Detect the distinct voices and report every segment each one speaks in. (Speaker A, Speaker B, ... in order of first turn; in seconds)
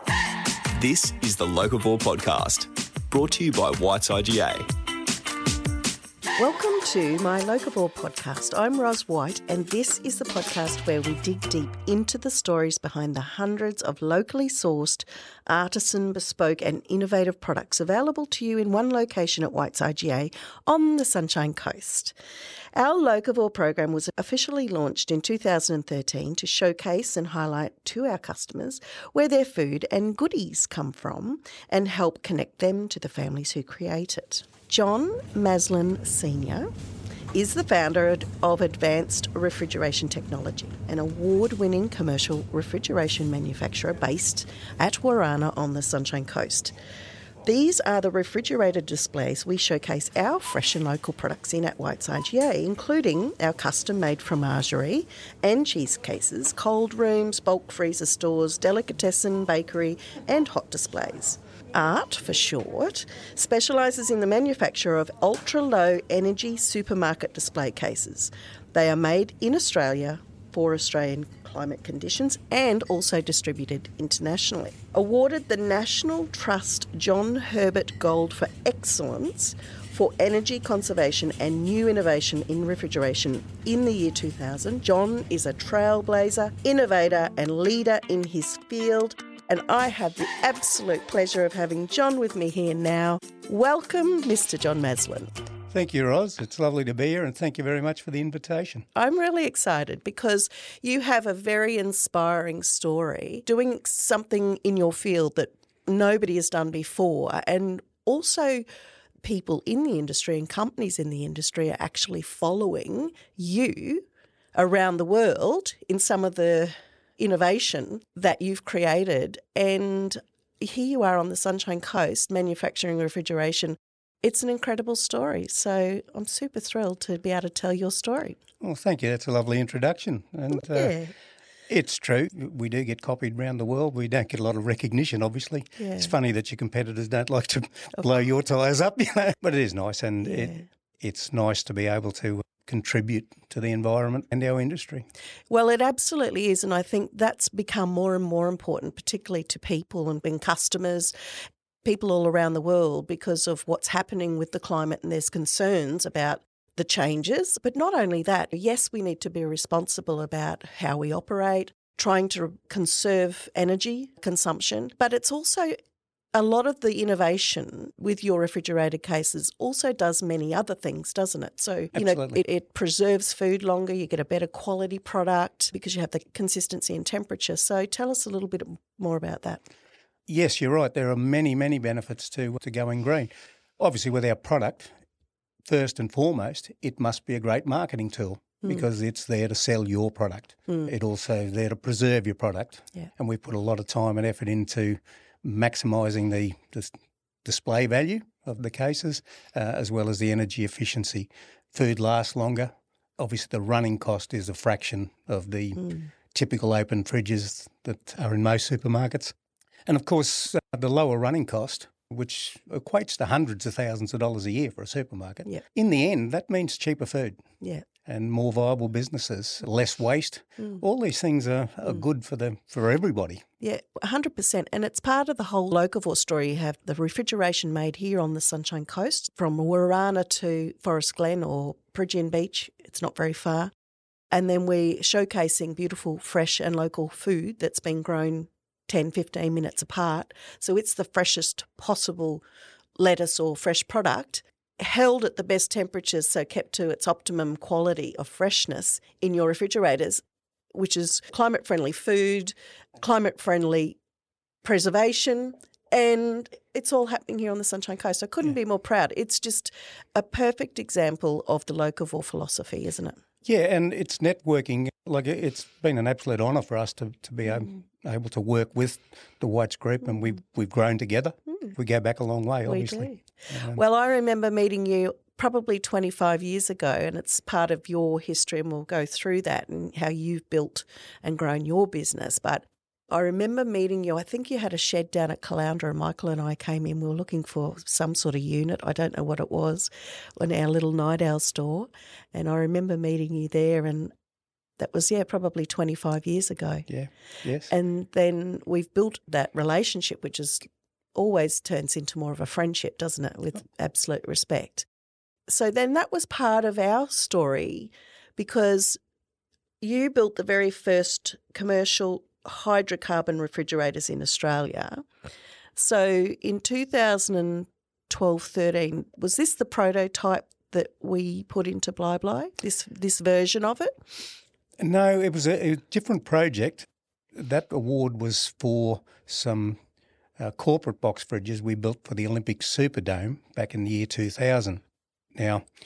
Speaker A: 0.8-4.7
Speaker B: 6.4-22.1, 22.8-36.7, 37.3-46.7, 47.5-95.3, 99.0-108.6, 109.2-128.4, 130.5-131.1, 135.8-136.1, 140.2-140.7, 145.5-151.1, 151.8-165.8, 166.3-179.6, 205.8-206.1, 217.6-217.9, 223.6-233.7, 234.3-242.4, 243.0-250.2, 250.7-254.0, 254.6-263.2, 272.7-294.1, 294.8-296.9, 297.7-304.9, 305.5-309.0, 309.8-315.0, 315.8-323.9
Speaker C: 95.7-98.9, 128.6-131.0, 131.7-145.1, 171.9-172.4, 180.3-184.9, 185.7-209.3, 209.9-217.4, 218.0-223.4, 263.4-273.8, 296.9-297.7, 324.8-329.8, 330.4-334.8, 335.4-335.7